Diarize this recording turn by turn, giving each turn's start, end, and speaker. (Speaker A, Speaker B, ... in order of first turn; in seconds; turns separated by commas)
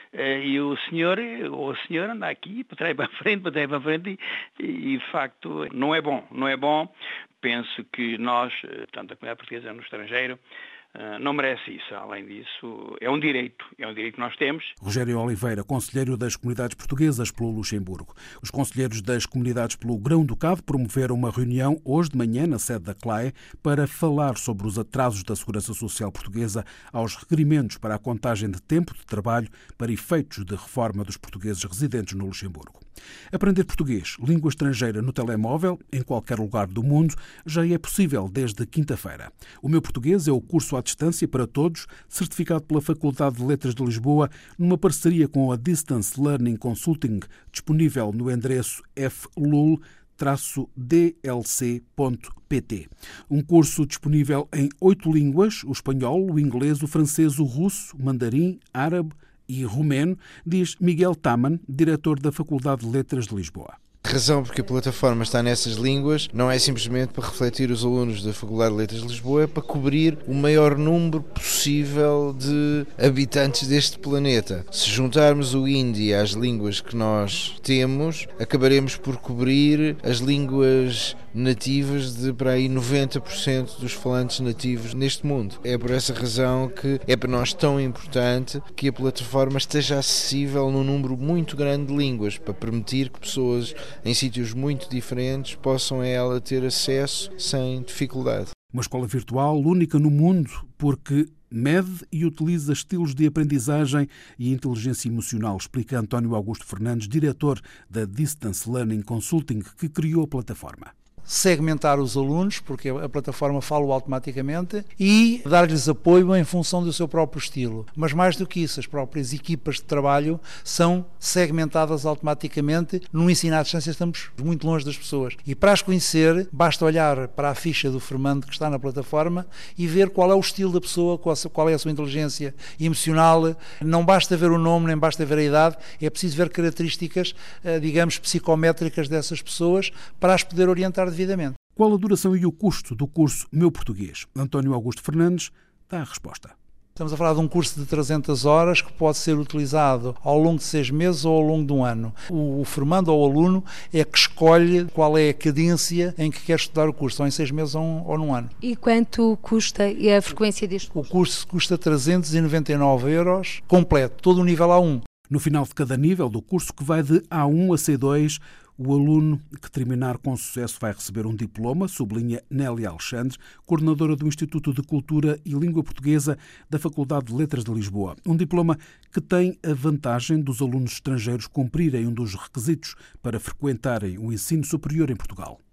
Speaker A: 0.1-10.4, Speaker A: 10.9-14.7, Speaker B: 14.8-32.8, Speaker B: 33.3-63.8, Speaker C: 64.0-98.5, Speaker B: 98.7-110.9, Speaker D: 111.3-141.5, Speaker B: 141.8-146.5, Speaker D: 147.0-158.5, Speaker E: 158.6-161.0, Speaker D: 161.0-165.0, Speaker B: 165.3-185.6